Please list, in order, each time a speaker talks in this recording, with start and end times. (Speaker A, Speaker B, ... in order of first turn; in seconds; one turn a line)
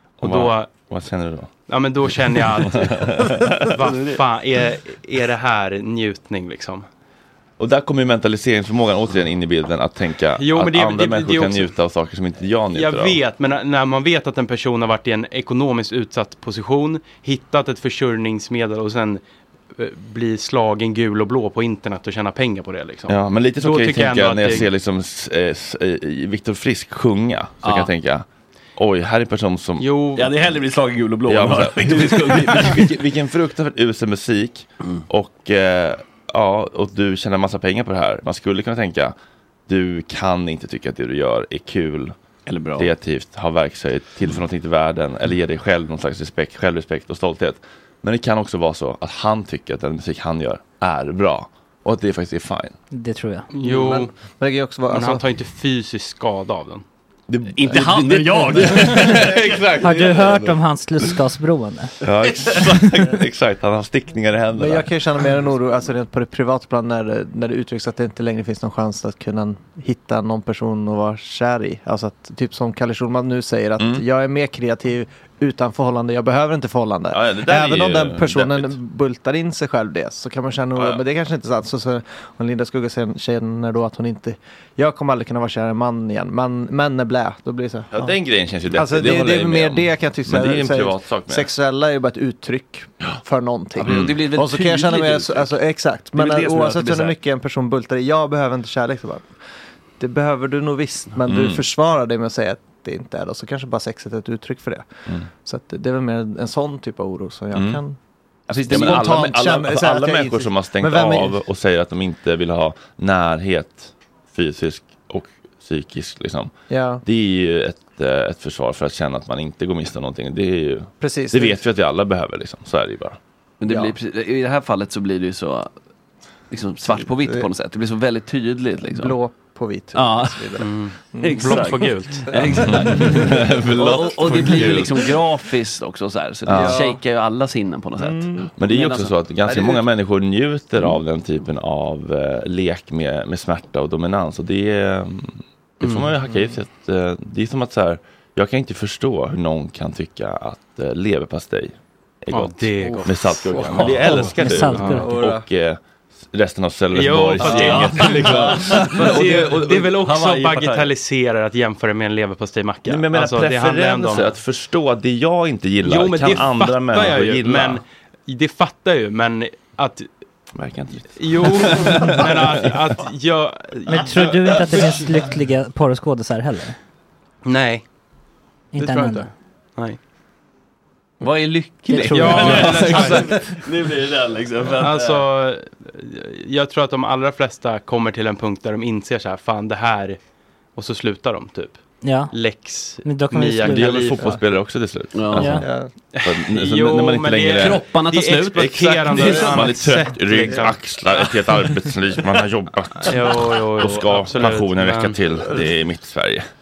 Speaker A: 0.2-0.7
Speaker B: 0.2-1.5
Speaker A: 1.7-6.9
Speaker B: 2.7-3.7
Speaker C: 3.7-4.2
Speaker B: 7.6-13.2
Speaker A: 10.4-11.7
Speaker A: 12.7-19.2
Speaker A: 19.7-24.7
Speaker B: 23.1-28.2
Speaker C: 27.6-27.9
Speaker B: 28.8-29.9
Speaker A: 29.8-30.3
Speaker C: 30.1-33.0
Speaker B: 31.3-39.1
Speaker B: 39.7-42.1
Speaker C: 42.5-42.9
Speaker B: 42.8-52.7
Speaker D: 52.9-53.5
Speaker A: 53.5-54.1
Speaker E: 53.6-55.2
Speaker A: 54.9-56.8
Speaker B: 57.3-60.6
Speaker C: 57.5-59.6
Speaker D: 59.8-62.0
Speaker B: 62.0-64.9
Speaker C: 62.2-62.6
Speaker D: 62.8-63.1
Speaker E: 64.5-88.1
Speaker B: 73.8-74.0
Speaker B: 77.1-78.7
Speaker B: 80.8-81.0
Speaker B: 87.9-91.5
Speaker E: 88.7-99.3
Speaker C: 93.8-95.5
Speaker B: 93.8-94.2
Speaker C: 96.1-97.2
Speaker E: 100.0-104.8
Speaker B: 101.3-101.6
Speaker E: 105.4-108.0
Speaker B: 107.5-107.8
Speaker C: 108.5-109.4
Speaker E: 108.5-111.4
Speaker B: 108.6-116.5
Speaker E: 116.7-117.0
Speaker B: 117.0-123.2
Speaker E: 121.0-121.6
Speaker C: 123.6-125.7
Speaker E: 123.7-123.9
Speaker C: 126.5-129.2
Speaker E: 127.0-127.5
Speaker E: 128.9-133.2
Speaker C: 129.9-139.1
Speaker A: 130.6-132.3
Speaker B: 132.5-135.1
Speaker B: 136.4-136.8
Speaker E: 136.5-137.0
Speaker E: 138.0-138.5
Speaker B: 138.6-159.7
Speaker E: 139.4-139.8
Speaker A: 145.8-146.1
Speaker A: 152.3-155.0
Speaker C: 153.5-154.3
Speaker D: 154.2-155.1
Speaker E: 154.9-155.4
Speaker A: 156.9-164.3
Speaker C: 157.4-160.9
Speaker B: 162.9-167.8
Speaker A: 165.8-170.1
Speaker B: 170.6-172.7
Speaker A: 171.2-174.7
Speaker D: 173.8-176.8
Speaker A: 177.4-177.8
Speaker D: 178.7-179.3
Speaker E: 178.8-179.3
Speaker C: 181.2-185.2
Speaker D: 181.9-183.4
Speaker A: 182.1-183.4
Speaker A: 184.8-190.2
Speaker A: 190.8-191.8
Speaker D: 192.0-192.3
Speaker A: 192.3-194.2
Speaker D: 193.0-194.4
Speaker B: 193.6-195.7
Speaker C: 195.1-195.6
Speaker D: 195.3-195.7
Speaker E: 195.6-195.9
Speaker A: 196.1-200.8
Speaker B: 196.2-197.8
Speaker C: 197.6-199.7
Speaker B: 198.6-206.5
Speaker A: 203.0-205.2